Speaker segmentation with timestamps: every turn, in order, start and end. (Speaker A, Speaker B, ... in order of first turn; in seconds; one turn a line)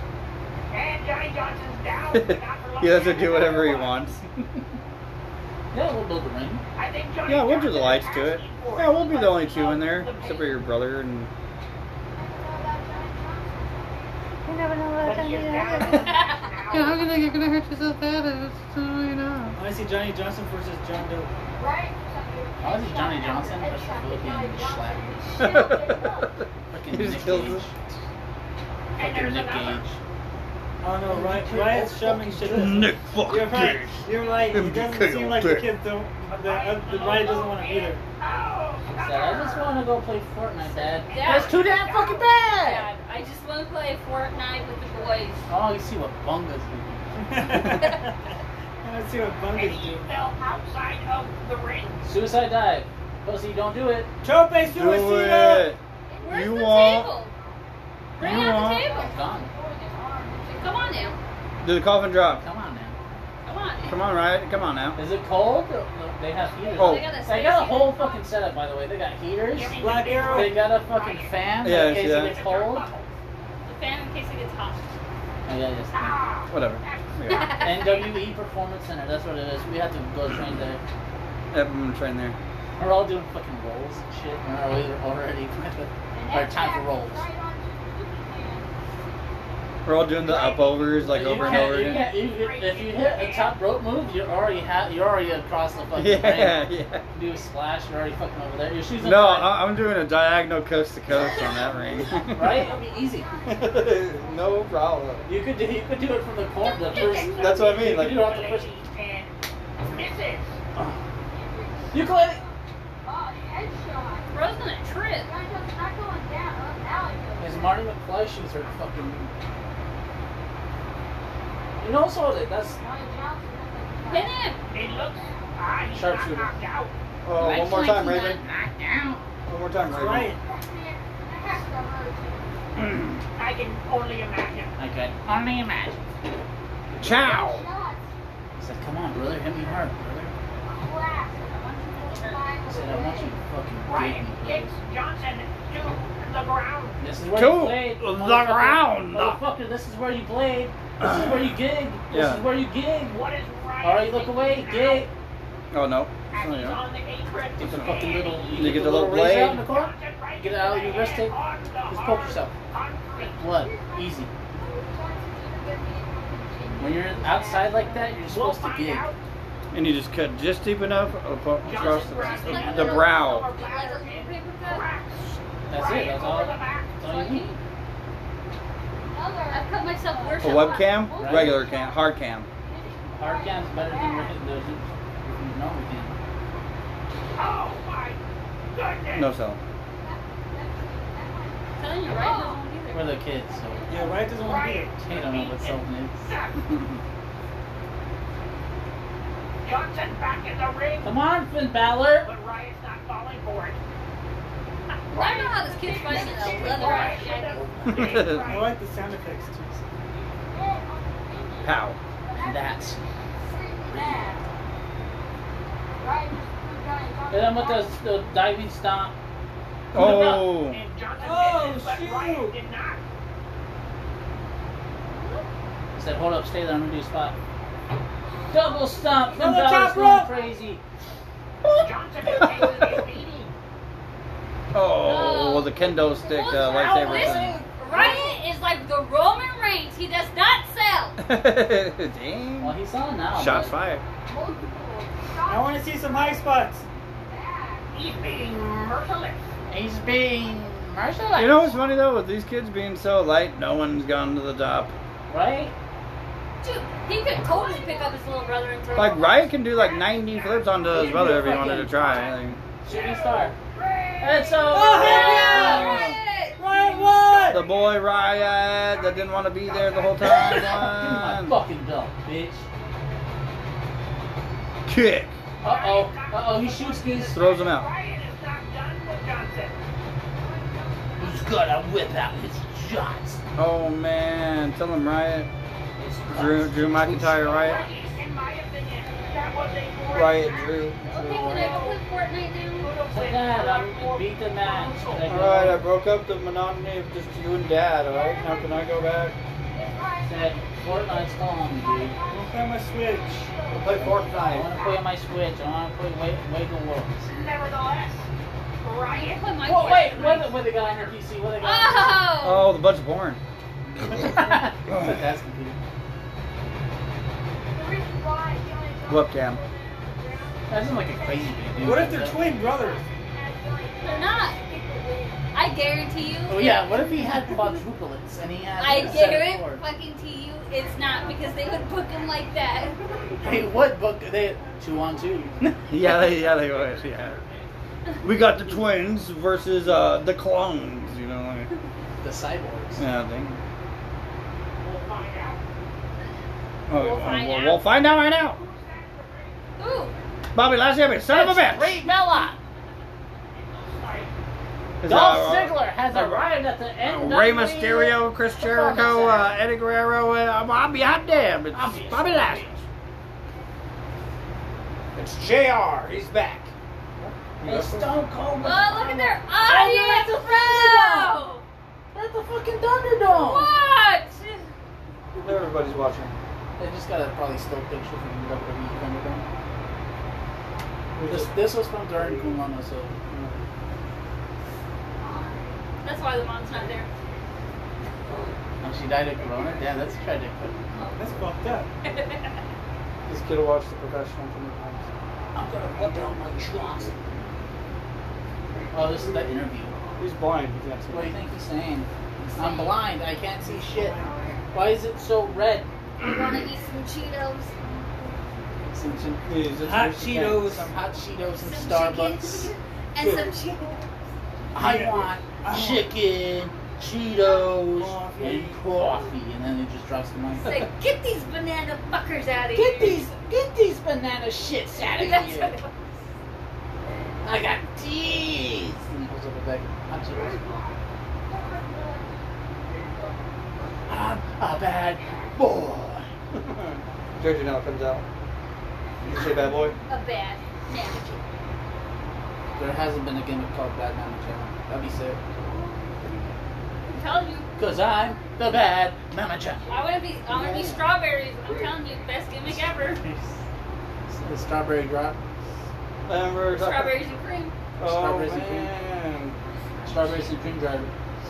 Speaker A: 0.7-4.1
Speaker B: 2.1-4.2
Speaker C: 5.7-6.6
Speaker A: 6.8-10.6
Speaker B: 7.2-11.3
Speaker B: 14.4-16.2
Speaker A: 15.0-17.1
Speaker D: 15.9-16.5
Speaker B: 16.7-19.6
Speaker E: 19.5-21.3
Speaker C: 22.6-25.5
Speaker B: 25.4-27.7
Speaker C: 26.7-27.7
Speaker A: 29.0-29.8
Speaker C: 29.0-30.0
Speaker E: 30.8-38.0
Speaker C: 31.1-32.9
Speaker B: 32.5-35.7
Speaker A: 36.3-39.8
Speaker C: 38.9-42.9
Speaker D: 41.0-42.0
Speaker A: 41.1-42.1
Speaker D: 42.5-45.4
Speaker C: 45.5-47.4
Speaker E: 47.2-48.3
Speaker E: 48.8-50.1
Speaker A: 49.5-52.1
Speaker C: 52.0-54.1
Speaker E: 54.2-55.7
Speaker B: 54.6-57.2
Speaker D: 56.2-57.3
Speaker D: 58.2-59.1
Speaker B: 58.2-58.6
Speaker C: 58.2-59.5
Speaker D: 60.5-61.1
Speaker B: 61.6-62.4
Speaker C: 62.3-63.0
Speaker D: 63.4-63.9
Speaker B: 63.9-65.0
Speaker C: 65.0-72.9
Speaker D: 66.7-68.1
Speaker B: 66.8-67.1
Speaker A: 69.5-73.1
Speaker E: 69.8-70.6
Speaker B: 71.6-72.4
Speaker D: 73.6-74.8
Speaker C: 75.5-76.2
Speaker A: 75.9-77.8
Speaker B: 76.5-77.5
Speaker D: 77.3-78.0
Speaker C: 77.6-80.8
Speaker B: 81.5-82.3
Speaker C: 82.8-87.3
Speaker B: 89.8-92.1
Speaker A: 90.2-93.6
Speaker C: 91.0-99.6
Speaker B: 96.0-97.0
Speaker B: 99.0-102.7
Speaker C: 102.3-103.3
Speaker B: 103.5-105.3
Speaker C: 105.2-108.7
Speaker A: 106.9-110.6
Speaker D: 106.9-107.2
Speaker B: 107.4-108.3
Speaker C: 111.9-112.4
Speaker D: 114.3-115.3
Speaker C: 117.4-119.3
Speaker C: 121.8-123.1
Speaker D: 124.0-124.6
Speaker A: 124.7-126.9
Speaker C: 125.9-126.5
Speaker B: 127.2-128.4
Speaker C: 127.3-129.2
Speaker B: 129.5-130.3
Speaker E: 129.9-130.4
Speaker A: 133.3-134.7
Speaker C: 134.8-136.0
Speaker B: 137.0-137.7
Speaker C: 138.6-140.3
Speaker D: 141.3-142.6
Speaker C: 142.6-144.8
Speaker A: 143.8-147.0
Speaker C: 147.0-153.2
Speaker B: 147.3-149.4
Speaker B: 152.1-152.4
Speaker A: 153.1-155.1
Speaker C: 153.8-155.1
Speaker B: 155.7-156.8
Speaker A: 156.3-163.4
Speaker C: 157.6-161.3
Speaker B: 158.5-159.6
Speaker C: 161.9-162.5
Speaker C: 163.2-164.3
Speaker C: 166.8-169.1
Speaker A: 168.2-169.2
Speaker B: 169.7-173.5
Speaker A: 171.6-177.0
Speaker D: 171.7-174.8
Speaker C: 175.7-177.5
Speaker D: 177.0-177.6
Speaker D: 179.5-181.6
Speaker B: 180.4-182.5
Speaker C: 181.1-181.7
Speaker C: 183.1-186.2
Speaker A: 187.3-188.2
Speaker A: 188.7-189.3
Speaker B: 189.1-189.6
Speaker D: 191.8-193.1
Speaker C: 192.9-194.2
Speaker E: 193.9-194.9
Speaker A: 194.3-196.8
Speaker C: 195.0-196.2
Speaker A: 199.6-201.2
Speaker C: 201.0-202.3
Speaker A: 202.2-203.8
Speaker D: 205.1-207.8
Speaker A: 205.1-208.7
Speaker B: 207.9-208.5
Speaker E: 208.4-209.8
Speaker B: 211.6-212.0
Speaker C: 212.4-213.0
Speaker C: 213.9-214.2
Speaker C: 217.3-219.1
Speaker B: 219.9-220.8
Speaker C: 219.9-220.6
Speaker A: 220.2-223.0
Speaker E: 221.2-222.5
Speaker C: 225.9-227.3
Speaker C: 228.5-230.8
Speaker E: 229.3-230.3
Speaker A: 231.8-233.5
Speaker B: 232.2-232.9
Speaker B: 234.7-237.6
Speaker D: 235.0-241.2
Speaker C: 236.8-237.6
Speaker B: 241.2-242.7
Speaker C: 242.6-243.8
Speaker B: 243.3-244.0
Speaker E: 245.5-246.8
Speaker A: 247.9-249.5
Speaker C: 249.7-251.8
Speaker B: 251.3-254.9
Speaker C: 255.3-255.7
Speaker D: 256.6-259.5
Speaker B: 258.9-262.6
Speaker C: 260.9-262.0
Speaker C: 262.8-263.5
Speaker A: 262.9-264.8
Speaker C: 264.2-266.0
Speaker E: 264.7-266.0
Speaker D: 264.8-266.6
Speaker B: 265.4-266.2
Speaker E: 266.6-267.6
Speaker B: 267.5-271.5
Speaker A: 269.4-270.1
Speaker C: 270.2-272.6
Speaker B: 274.9-275.4
Speaker C: 275.6-277.4
Speaker A: 275.6-279.8
Speaker B: 277.3-277.9
Speaker C: 281.2-283.4
Speaker B: 283.6-285.5
Speaker C: 286.0-287.9
Speaker B: 286.3-287.9
Speaker A: 287.5-292.0
Speaker B: 290.1-291.6
Speaker D: 291.0-292.9
Speaker C: 291.1-291.8
Speaker A: 292.8-295.3
Speaker C: 293.1-295.8
Speaker B: 295.3-299.4
Speaker C: 300.2-302.2
Speaker E: 302.3-303.5
Speaker B: 303.7-304.7
Speaker C: 303.9-307.3
Speaker A: 307.3-308.3
Speaker A: 308.8-310.0
Speaker D: 309.1-310.6
Speaker C: 309.6-312.3
Speaker D: 311.6-312.7
Speaker B: 312.4-313.4
Speaker C: 314.1-315.8
Speaker B: 319.0-319.6
Speaker C: 320.7-322.6
Speaker E: 321.8-323.0
Speaker D: 324.0-324.6
Speaker A: 324.1-324.3
Speaker D: 325.5-326.8
Speaker C: 326.5-329.8
Speaker D: 328.8-333.0
Speaker C: 333.4-335.8
Speaker B: 335.9-337.4
Speaker B: 338.2-341.7
Speaker C: 342.2-343.0
Speaker B: 343.0-343.6
Speaker A: 344.8-345.6
Speaker B: 346.9-348.6
Speaker D: 346.9-347.8
Speaker A: 348.3-349.6
Speaker D: 349.8-350.1
Speaker B: 350.5-352.0
Speaker C: 351.3-352.6
Speaker A: 353.5-354.3
Speaker B: 355.0-356.5
Speaker C: 355.0-359.6
Speaker B: 357.0-362.7
Speaker C: 361.7-362.8
Speaker B: 365.1-368.1
Speaker C: 367.6-371.4
Speaker D: 368.6-371.6
Speaker C: 372.1-373.8
Speaker D: 373.3-374.6
Speaker B: 375.4-376.3
Speaker C: 376.8-379.5
Speaker B: 381.1-381.6
Speaker C: 381.3-383.1
Speaker B: 383.3-383.6
Speaker D: 386.0-387.1
Speaker C: 388.8-390.8
Speaker E: 391.1-391.9
Speaker D: 392.0-392.4
Speaker B: 393.3-395.0
Speaker C: 395.5-397.1
Speaker C: 398.9-400.0
Speaker B: 400.2-401.3
Speaker C: 401.1-404.2
Speaker D: 402.4-403.0
Speaker E: 404.0-404.3
Speaker C: 404.7-405.9
Speaker D: 406.2-407.7
Speaker C: 408.9-409.4
Speaker B: 409.4-410.7
Speaker E: 409.8-411.0
Speaker C: 410.8-412.7
Speaker D: 411.6-414.0
Speaker C: 414.7-420.9
Speaker E: 414.8-416.1
Speaker E: 417.9-418.8
Speaker D: 420.6-423.2
Speaker C: 422.7-425.8
Speaker D: 425.1-425.9
Speaker C: 427.4-430.6
Speaker C: 434.1-436.3
Speaker B: 436.5-438.2
Speaker B: 439.2-439.9
Speaker D: 440.1-441.4
Speaker C: 442.8-445.4
Speaker D: 447.1-447.7
Speaker C: 447.8-449.9
Speaker D: 449.9-453.2
Speaker C: 450.5-450.9
Speaker E: 453.0-453.5
Speaker C: 454.3-455.4
Speaker B: 456.2-457.2
Speaker D: 456.7-457.7
Speaker B: 458.0-459.6
Speaker C: 458.0-458.9
Speaker C: 460.1-461.1